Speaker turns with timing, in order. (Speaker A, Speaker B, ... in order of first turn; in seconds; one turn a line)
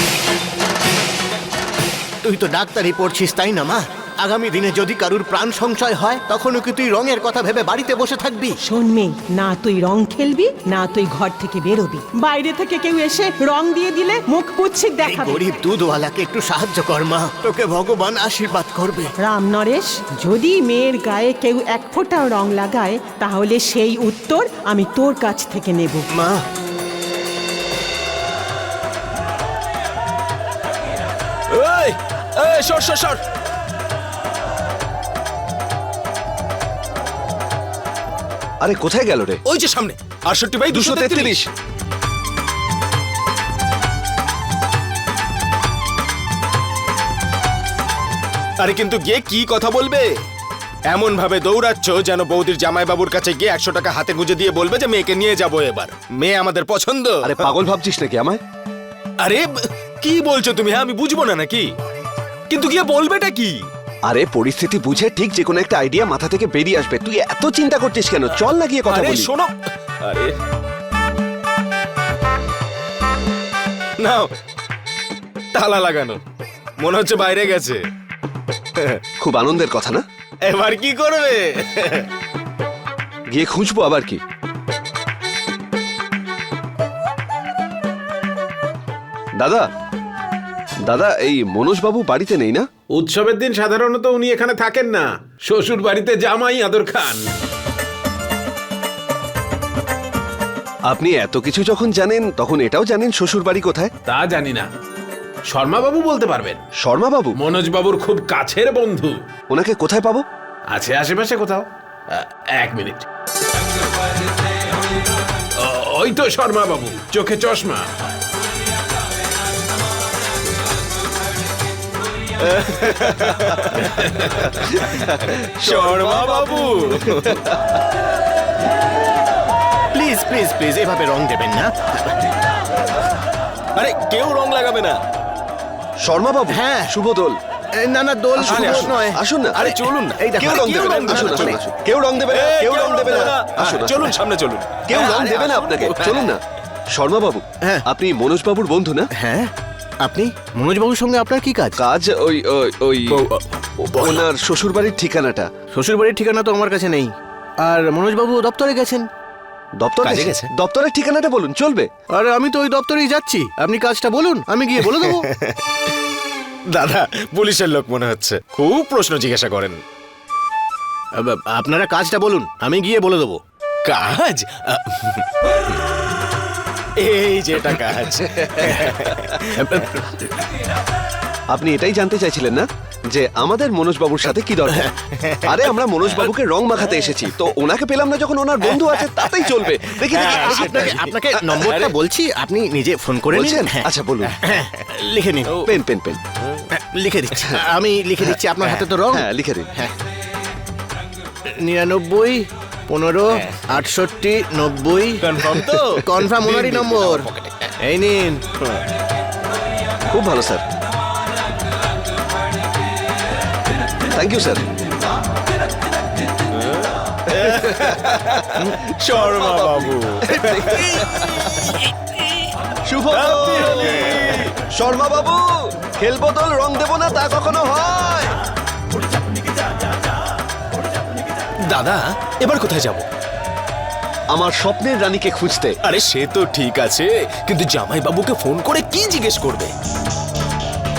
Speaker A: 2.2-8.6
Speaker B: 8.6-15.4
Speaker A: 15.0-19.1
Speaker B: 19.2-26.0
Speaker A: 26.1-26.4
Speaker C: 31.5-33.2
Speaker D: 38.6-39.4
Speaker C: 39.5-41.4
Speaker D: 40.7-41.5
Speaker C: 48.6-50.1
Speaker C: 50.9-57.5
Speaker D: 57.2-58.4
Speaker C: 59.2-59.5
Speaker C: 60.0-61.7
Speaker C: 62.5-63.5
Speaker D: 64.0-69.3
Speaker C: 68.9-69.5
Speaker C: 70.0-70.3
Speaker C: 74.0-74.3
Speaker C: 75.5-76.2
Speaker C: 76.8-77.8
Speaker D: 79.2-80.0
Speaker C: 80.4-82.0
Speaker D: 83.3-84.2
Speaker D: 89.4-89.6
Speaker D: 90.8-92.7
Speaker E: 92.9-97.3
Speaker D: 100.9-103.9
Speaker E: 104.1-104.7
Speaker E: 105.5-106.6
Speaker D: 106.8-107.3
Speaker E: 107.4-109.2
Speaker D: 109.5-110.2
Speaker E: 110.7-113.0
Speaker E: 115.6-117.8
Speaker C: 122.7-123.8
Speaker C: 125.6-127.4
Speaker D: 125.6-127.3
Speaker A: 129.9-131.9
Speaker C: 133.8-135.0
Speaker D: 136.0-137.3
Speaker A: 136.5-136.9
Speaker A: 137.8-141.6
Speaker D: 138.4-139.6
Speaker C: 138.4-141.6
Speaker D: 140.4-144.1
Speaker C: 142.3-146.3
Speaker D: 144.9-146.4
Speaker D: 146.9-149.1
Speaker A: 149.2-149.5
Speaker A: 150.0-151.8
Speaker D: 151.8-153.2
Speaker C: 153.1-154.2
Speaker D: 154.0-155.5
Speaker A: 155.7-157.1
Speaker A: 157.6-159.1
Speaker D: 159.8-161.9
Speaker C: 160.0-160.5
Speaker A: 162.1-165.2
Speaker C: 164.8-165.4
Speaker C: 166.7-169.8
Speaker A: 171.2-173.4
Speaker C: 173.8-175.2
Speaker C: 177.0-179.7
Speaker D: 181.5-184.9
Speaker D: 185.4-191.0
Speaker C: 190.1-191.9
Speaker A: 190.1-193.8
Speaker D: 193.3-194.4
Speaker A: 194.4-195.5
Speaker D: 195.6-196.2
Speaker A: 196.8-199.2
Speaker D: 199.1-199.7
Speaker A: 201.6-205.2
Speaker C: 205.2-207.5
Speaker A: 206.0-207.3
Speaker A: 207.8-208.4
Speaker D: 210.1-210.6
Speaker D: 214.1-214.6
Speaker C: 217.3-222.2
Speaker D: 219.2-221.2
Speaker D: 222.9-228.3
Speaker C: 223.1-224.5
Speaker C: 231.7-233.1
Speaker D: 234.3-235.7
Speaker C: 235.8-239.7